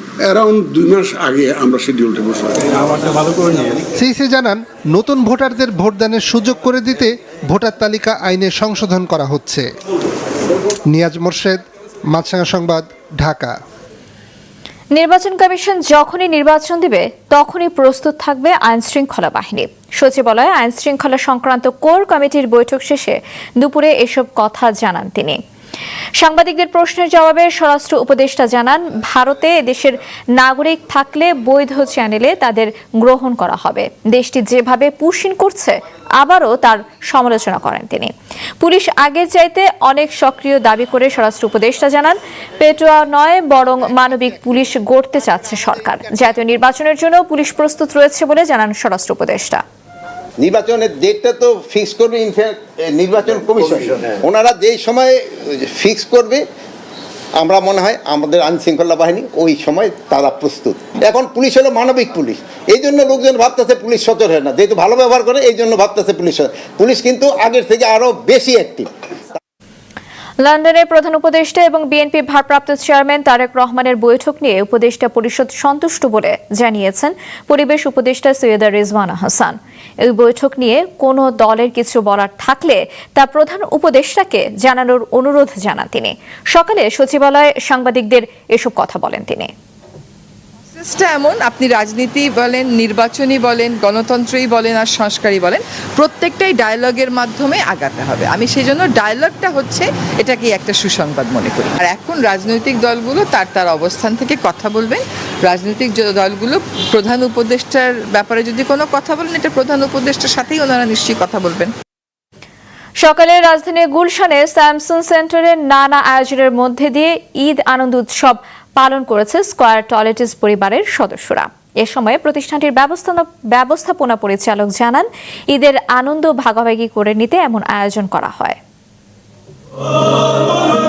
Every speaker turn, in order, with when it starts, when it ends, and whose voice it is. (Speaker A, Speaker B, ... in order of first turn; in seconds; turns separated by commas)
Speaker A: 0.2-2.8, Speaker B: 3.9-9.7, Speaker B: 10.9-13.6, Speaker C: 14.9-25.4, Speaker C: 26.2-49.6, Speaker D: 50.4-56.4, Speaker D: 57.4-68.9, Speaker C: 70.4-89.5, Speaker E: 90.8-111.7, Speaker C: 113.0-128.6